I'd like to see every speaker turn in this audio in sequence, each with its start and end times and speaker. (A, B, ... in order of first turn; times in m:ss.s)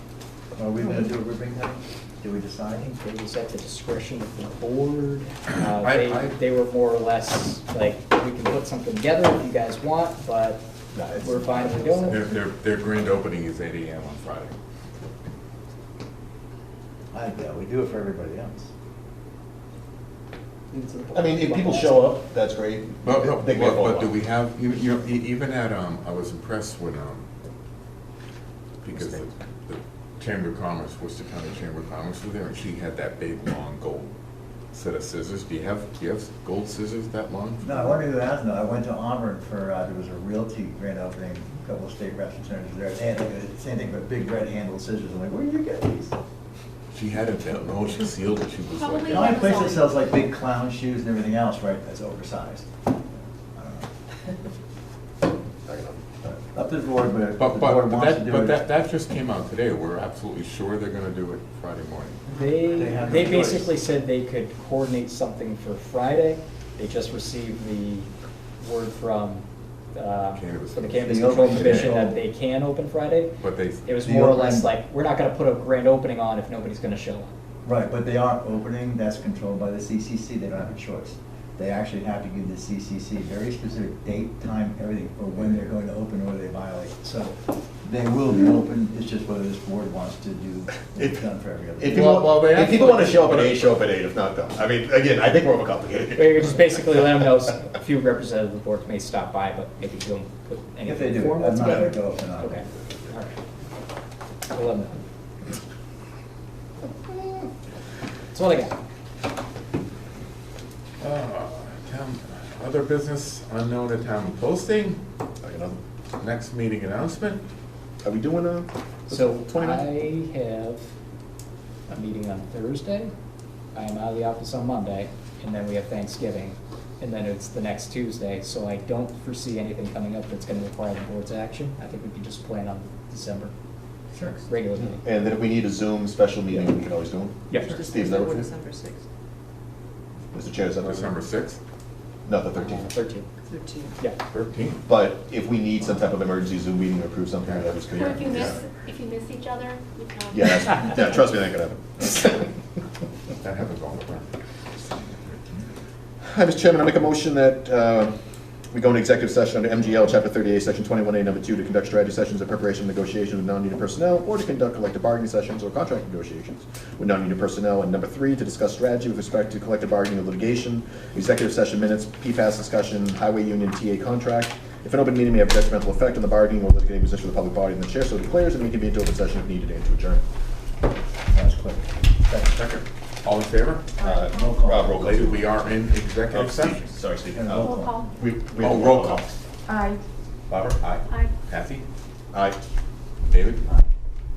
0:00.6-0:03.0 A
0:03.0-0:12.2 B
0:05.5-0:06.4 C
0:11.0-0:11.4 D
0:12.1-0:14.5 C
0:17.1-0:18.7 A
0:20.7-0:21.9 E
0:21.1-0:24.2 D
0:23.0-0:27.3 C
0:28.8-0:34.1 C
0:34.7-0:37.9 C
0:37.6-0:46.2 A
0:46.9-0:49.4 C
0:48.7-0:49.9 F
0:49.1-0:52.7 A
0:53.5-0:53.9 A
0:55.7-0:56.1 D
0:56.5-0:58.6 A
0:57.4-1:02.4 C
1:02.3-1:03.2 E
1:02.4-1:17.3 B
1:02.7-1:03.7 A
1:10.4-1:12.0 C
1:11.0-1:12.2 A
1:13.4-1:13.8 C
1:14.0-1:14.7 A
1:17.6-1:32.2 A
1:25.4-1:25.7 C
1:31.8-1:36.6 D
1:31.8-1:33.8 C
1:36.2-1:43.3 B
1:40.8-1:42.6 A
1:44.5-1:45.0 B
1:48.3-1:48.8 B
1:51.0-1:55.0 C
1:55.4-1:55.8 D
1:56.2-1:57.4 C
1:58.0-1:59.9 D
1:59.1-2:00.9 B
2:01.9-2:03.1 B
2:03.7-2:13.5 B
2:14.1-2:14.4 A
2:14.5-2:15.0 B
2:14.8-2:18.5 D
2:17.5-2:19.0 E
2:20.3-2:21.2 D
2:20.8-2:21.6 C
2:22.3-2:22.9 D
2:22.6-2:23.3 B
2:23.4-2:24.0 E
2:24.3-2:24.8 C
2:24.8-2:28.6 D
2:27.5-2:28.6 C
2:27.9-2:31.3 F
2:30.3-2:32.4 D
2:33.4-2:34.3 C
2:36.3-2:38.1 D
2:38.7-3:00.2 D
3:01.3-3:02.5 A
3:02.5-3:03.9 C
3:04.0-3:05.3 F
3:04.0-3:05.3 D
3:04.3-3:05.4 A
3:05.0-3:06.8 C
3:06.3-3:09.4 D
3:07.3-3:08.0 A
3:07.5-3:08.1 F
3:08.6-3:09.3 C
3:09.7-3:10.0 E
3:10.5-3:11.1 D
3:11.5-3:11.9 C
3:12.3-3:12.6 D
3:13.2-3:13.6 C